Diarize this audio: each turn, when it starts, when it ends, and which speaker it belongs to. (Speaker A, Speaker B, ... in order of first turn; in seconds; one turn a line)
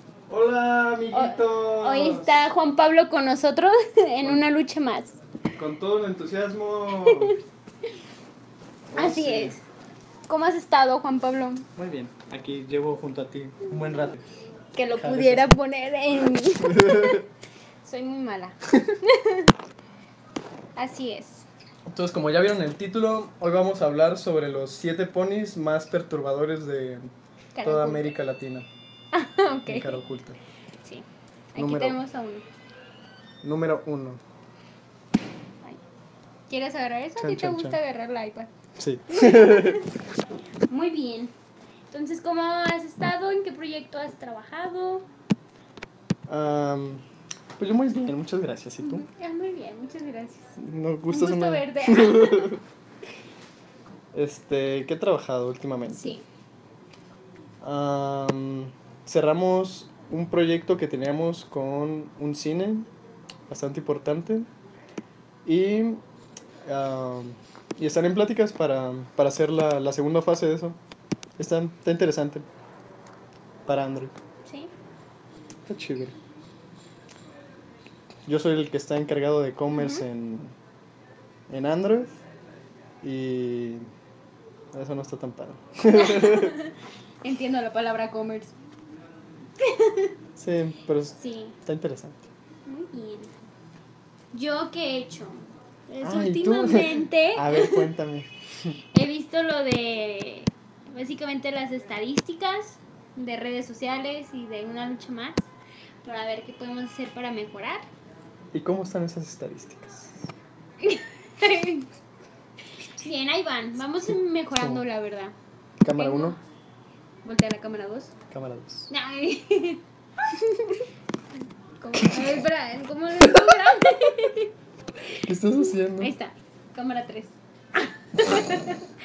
Speaker A: 0.3-2.4
Speaker B: 1.1-5.2
Speaker A: 5.5-7.4
Speaker B: 7.1-7.3
Speaker A: 8.9-9.6
Speaker B: 8.9-9.6
Speaker B: 10.3-11.7
Speaker A: 11.8-14.2
Speaker B: 14.7-17.2
Speaker A: 15.0-15.6
Speaker A: 16.7-17.2
Speaker B: 17.8-19.5
Speaker B: 20.8-21.4
Speaker A: 21.9-27.1
Speaker B: 27.6-28.1
Speaker A: 27.6-28.7
Speaker B: 29.1-30.0
Speaker A: 29.7-30.4
Speaker B: 30.8-32.5
Speaker A: 31.6-32.0
Speaker A: 33.4-34.2
Speaker B: 36.5-38.5
Speaker A: 37.2-37.8
Speaker A: 38.8-39.8
Speaker B: 39.1-39.9
Speaker B: 40.7-41.3
Speaker B: 41.9-45.1
Speaker A: 46.3-47.0
Speaker A: 47.6-49.0
Speaker B: 48.8-50.5
Speaker A: 50.6-52.6
Speaker B: 51.1-52.6
Speaker A: 54.1-56.2
Speaker B: 55.9-56.2
Speaker A: 57.6-62.9
Speaker A: 63.5-64.5
Speaker A: 65.4-66.0
Speaker A: 66.6-70.8
Speaker A: 71.4-72.5
Speaker A: 73.7-74.1
Speaker B: 74.5-74.7
Speaker A: 75.7-76.2
Speaker A: 78.2-80.5
Speaker B: 79.7-80.0
Speaker A: 81.5-82.2
Speaker A: 83.0-83.9
Speaker A: 84.7-86.6
Speaker B: 85.9-88.5
Speaker B: 89.6-90.1
Speaker A: 90.4-92.2
Speaker B: 91.2-91.5
Speaker B: 92.7-93.3
Speaker B: 94.3-97.9
Speaker A: 96.0-98.8
Speaker B: 98.9-105.5
Speaker B: 106.0-107.9
Speaker A: 108.5-110.3
Speaker B: 110.8-111.9
Speaker B: 112.8-115.3
Speaker A: 114.6-114.8
Speaker A: 115.8-116.4
Speaker B: 115.9-116.4
Speaker B: 117.2-118.1
Speaker A: 118.3-118.9
Speaker B: 118.9-120.8
Speaker B: 121.8-124.5
Speaker A: 122.0-122.4
Speaker A: 123.2-123.7
Speaker A: 125.2-126.1
Speaker B: 125.6-128.9